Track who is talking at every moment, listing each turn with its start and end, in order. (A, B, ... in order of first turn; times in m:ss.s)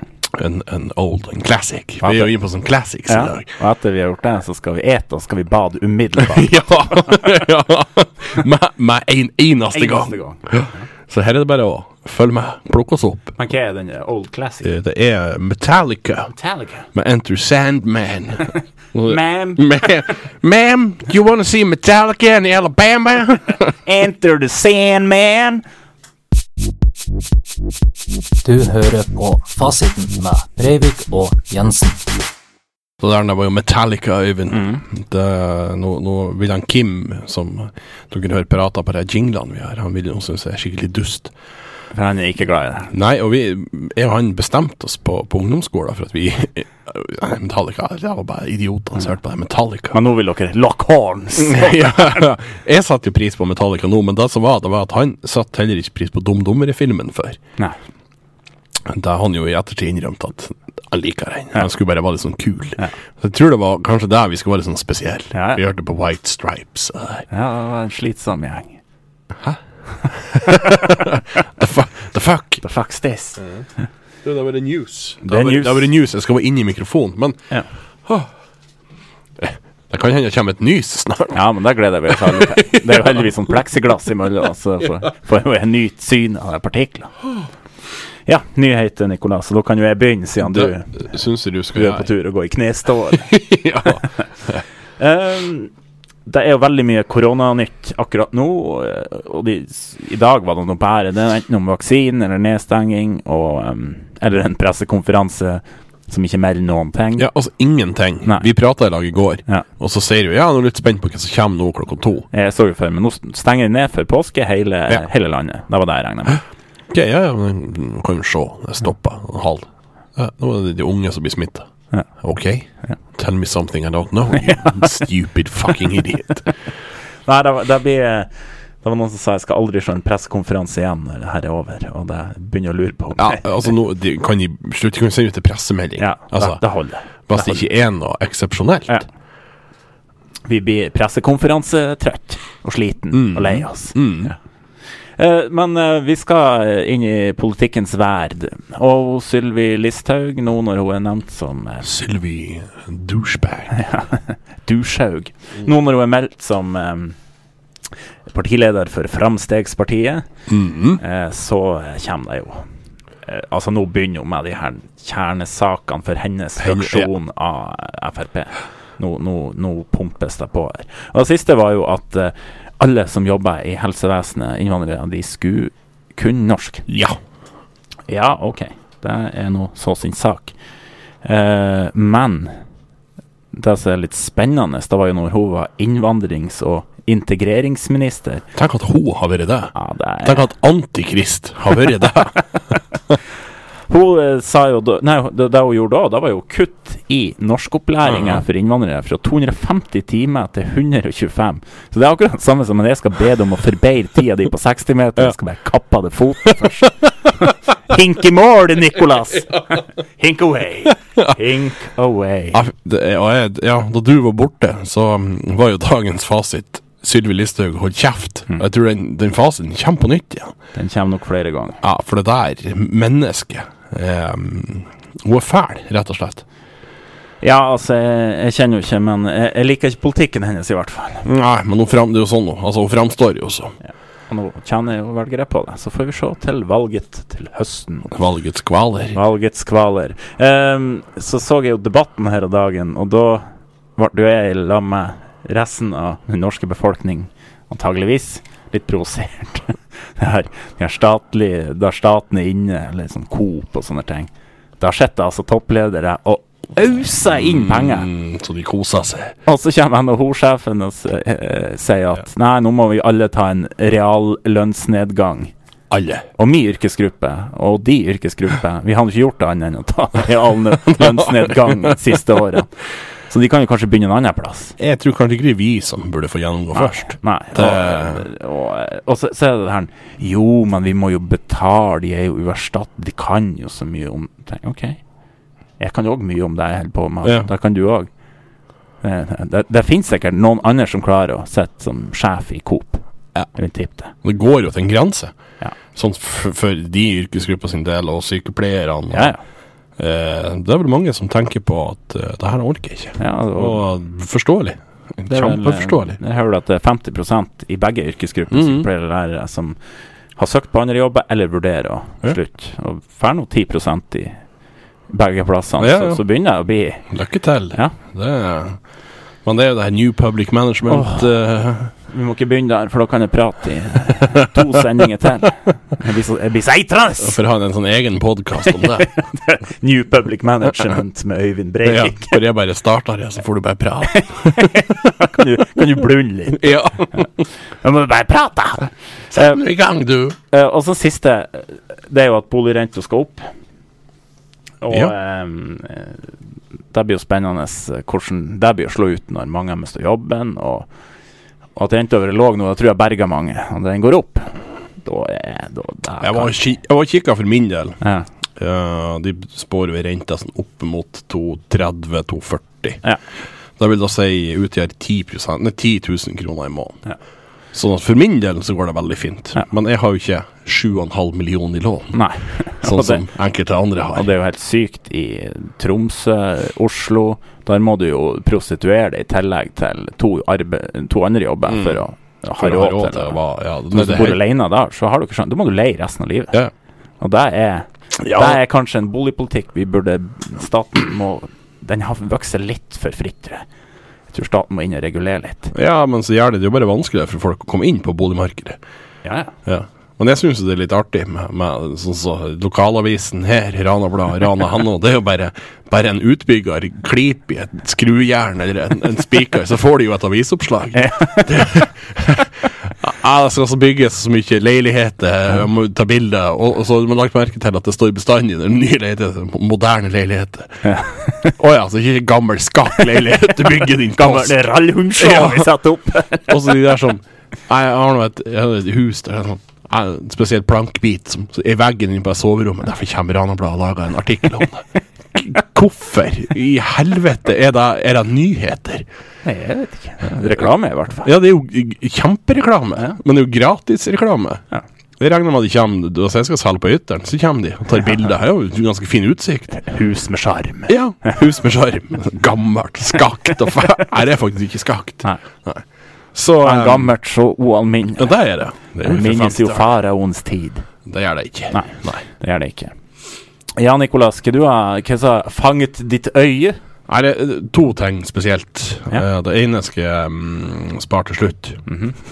0:00.2-0:03.5 A
0:02.0-0:02.3 B
0:03.1-0:07.3 B
0:06.2-0:13.4 A
0:09.7-0:10.8 B
0:13.4-0:14.7 B
0:14.6-0:16.3 A
0:16.3-0:16.8 B
0:16.9-0:23.7 A
0:19.1-0:19.6 B
0:23.8-0:25.6 B
0:28.4-0:32.0 C
0:33.0-0:41.3 A
0:34.5-0:34.8 B
0:41.9-0:42.9 B
0:42.9-0:50.0 A
0:49.9-0:52.2 B
0:51.4-0:57.4 A
0:58.8-1:07.3 A
1:05.3-1:05.6 B
1:07.3-1:08.8 B
1:09.4-1:12.6 A
1:12.6-1:13.4 B
1:13.4-1:13.6 A
1:14.2-1:17.4 A
1:15.2-1:15.9 B
1:19.4-1:21.4 A
1:21.3-1:27.1 B
1:22.1-1:23.3 A
1:28.2-1:31.1 B
1:30.4-1:32.1 A
1:31.7-1:33.3 B
1:33.1-1:34.6 A
1:35.0-1:35.7 B
1:36.2-1:47.2 B
1:47.2-1:52.3 A
1:52.3-1:56.4 B
1:56.9-2:01.7 A
2:02.2-2:06.5 A
2:04.4-2:05.0 B
2:07.2-2:08.3 B
2:08.8-2:13.5 B
2:13.2-2:16.6 A
2:16.0-2:17.6 B
2:17.3-2:19.0 A
2:20.5-2:24.4 B
2:23.1-2:24.3 A
2:25.2-2:31.9 B
2:31.8-2:33.8 A
2:33.7-2:37.2 B
2:38.3-2:40.2 B
2:40.5-2:41.0 A
2:41.0-2:42.6 B
2:43.2-2:56.9 B
2:46.6-2:47.1 A
2:56.9-2:57.2 A
2:58.1-3:00.6 B
3:01.2-3:02.5 B
3:03.5-3:08.4 B
3:08.5-3:12.4 A
3:09.7-3:10.4 B
3:13.9-3:32.6 B
3:18.0-3:18.4 A
3:32.5-3:40.5 A
3:40.7-3:41.8 B
3:41.8-3:46.4 A
3:47.4-3:51.2 B
3:51.2-3:53.7 A
3:53.9-3:58.1 B
3:58.1-3:59.2 A
3:59.1-4:18.1 B
4:17.3-4:19.3 A
4:19.4-4:25.5 B
4:25.9-4:26.3 A
4:26.4-4:32.7 B
4:30.8-4:32.0 A
4:33.3-4:34.8 B
4:34.8-4:38.2 A
4:36.7-4:45.0 B
4:45.8-4:48.1 B
4:47.2-4:47.5 A
4:49.0-4:53.0 B
4:53.5-4:54.1 B
4:54.2-4:55.3 A
4:55.9-4:59.3 A
4:59.1-4:59.4 B
5:00.0-5:06.2 A
5:03.2-5:03.8 B
5:05.3-5:09.8 B
5:08.5-5:08.9 A
5:10.4-5:14.4 B
5:15.1-5:17.0 B
5:15.8-5:16.2 A
5:17.1-5:18.8 A
5:19.4-5:21.9 A
5:20.9-5:21.3 B
5:22.1-5:27.4 B
5:27.2-5:29.1 A
5:28.7-5:32.4 B
5:31.8-5:34.9 A
5:34.1-5:37.2 B
5:36.5-5:37.4 A
5:37.8-5:39.6 B
5:39.3-5:40.4 A
5:40.5-5:43.4 B
5:44.8-5:46.2 B
5:46.9-5:50.9 B
5:51.8-5:56.6 B
5:56.2-5:58.0 A
5:58.0-5:58.2 B
5:58.6-6:03.0 A
6:03.8-6:07.0 A
6:07.7-6:12.2 A
6:12.1-6:13.2 B
6:12.8-6:14.3 A
6:14.1-6:23.4 B
6:21.7-6:22.0 A
6:22.6-6:24.4 A
6:23.9-6:26.6 B
6:27.2-6:33.6 B
6:28.2-6:28.6 A
6:34.3-6:35.7 B
6:35.7-6:38.8 A
6:39.2-6:39.5 B
6:39.6-7:00.8 A
6:51.0-6:51.6 B
7:00.8-7:01.5 B
7:01.4-7:04.6 A
7:03.4-7:06.7 B
7:05.2-7:05.6 A
7:06.5-7:19.0 A
7:19.4-7:21.3 B
7:20.3-7:20.7 A
7:21.2-7:24.6 A
7:25.2-7:29.8 A
7:29.7-7:31.3 B
7:30.9-7:35.8 A
7:36.3-7:37.1 A
7:36.6-7:38.3 B
7:38.2-7:39.9 A
7:39.0-7:40.8 B
7:41.0-7:42.2 A
7:41.7-7:42.9 B
7:43.8-7:46.8 B
7:47.1-7:51.8 A
7:51.9-7:52.1 B